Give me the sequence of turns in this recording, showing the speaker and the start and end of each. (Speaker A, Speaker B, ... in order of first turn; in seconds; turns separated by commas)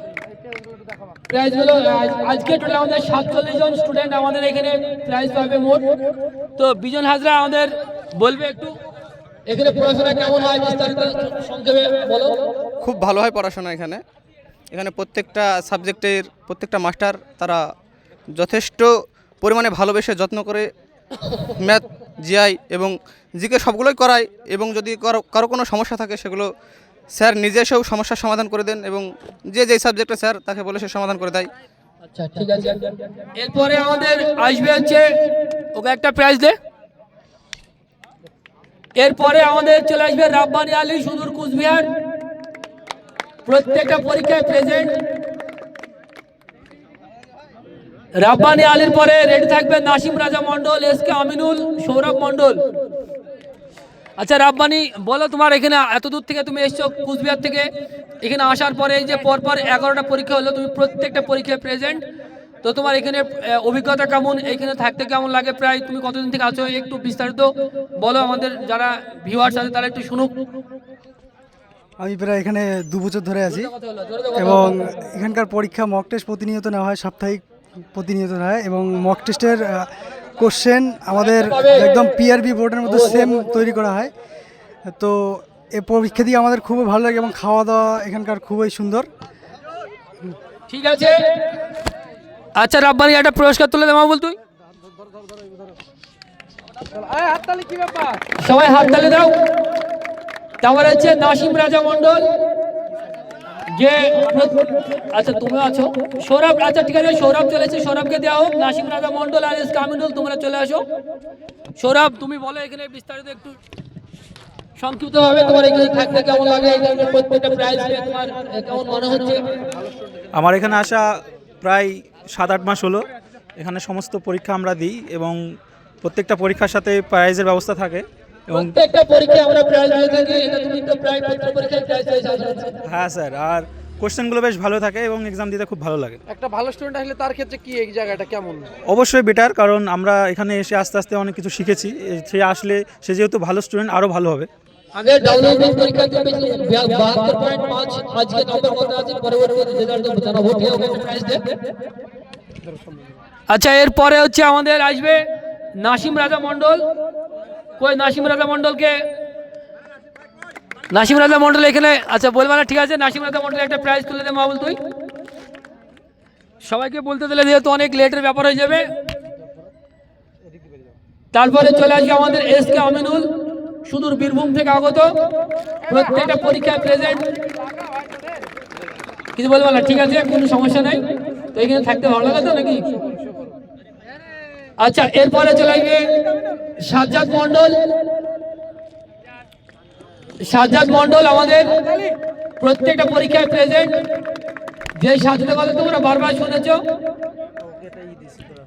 Speaker A: 0.3-1.0, Speaker B: 1.3-5.8, Speaker B: 6.6-8.8, Speaker B: 9.5-12.4, Speaker C: 12.8-14.0, Speaker C: 14.7-17.6, Speaker C: 18.3-18.9, Speaker C: 19.4-20.7, Speaker C: 21.6-26.5, Speaker C: 27.1-31.5, Speaker B: 32.1-32.8, Speaker B: 33.4-35.0, Speaker B: 35.7-36.5, Speaker B: 39.0-41.9, Speaker B: 43.5-45.0, Speaker B: 48.1-52.6, Speaker B: 54.2-57.7, Speaker B: 58.2-62.0, Speaker B: 62.6-70.3, Speaker D: 72.0-73.7, Speaker B: 73.7-74.7, Speaker D: 74.3-84.1, Speaker B: 81.2-81.8, Speaker B: 82.9-83.2, Speaker D: 84.9-89.1, Speaker B: 90.7-91.2, Speaker B: 92.5-94.4, Speaker A: 96.9-98.2, Speaker B: 98.4-99.4, Speaker B: 100.6-102.3, Speaker B: 103.7-110.8, Speaker B: 111.8-113.6, Speaker B: 114.8-119.4, Speaker E: 120.3-121.1, Speaker E: 121.6-123.0, Speaker E: 123.6-125.3, Speaker E: 126.0-128.7, Speaker B: 128.5-132.7, Speaker E: 132.9-136.2, Speaker A: 136.3-138.7, Speaker E: 138.9-144.5, Speaker B: 144.9-151.4, Speaker B: 153.5-155.2, Speaker B: 155.8-156.8, Speaker B: 157.8-159.0, Speaker B: 160.9-164.8, Speaker B: 166.6-168.9, Speaker B: 171.3-173.3, Speaker B: 173.8-175.1, Speaker B: 175.9-177.3, Speaker A: 177.6-178.5, Speaker B: 179.3-181.0, Speaker B: 181.5-182.8, Speaker A: 182.9-183.6, Speaker B: 184.8-186.1, Speaker B: 186.8-187.8, Speaker B: 190.4-191.8, Speaker A: 191.9-192.1, Speaker B: 192.6-194.0, Speaker B: 195.0-196.8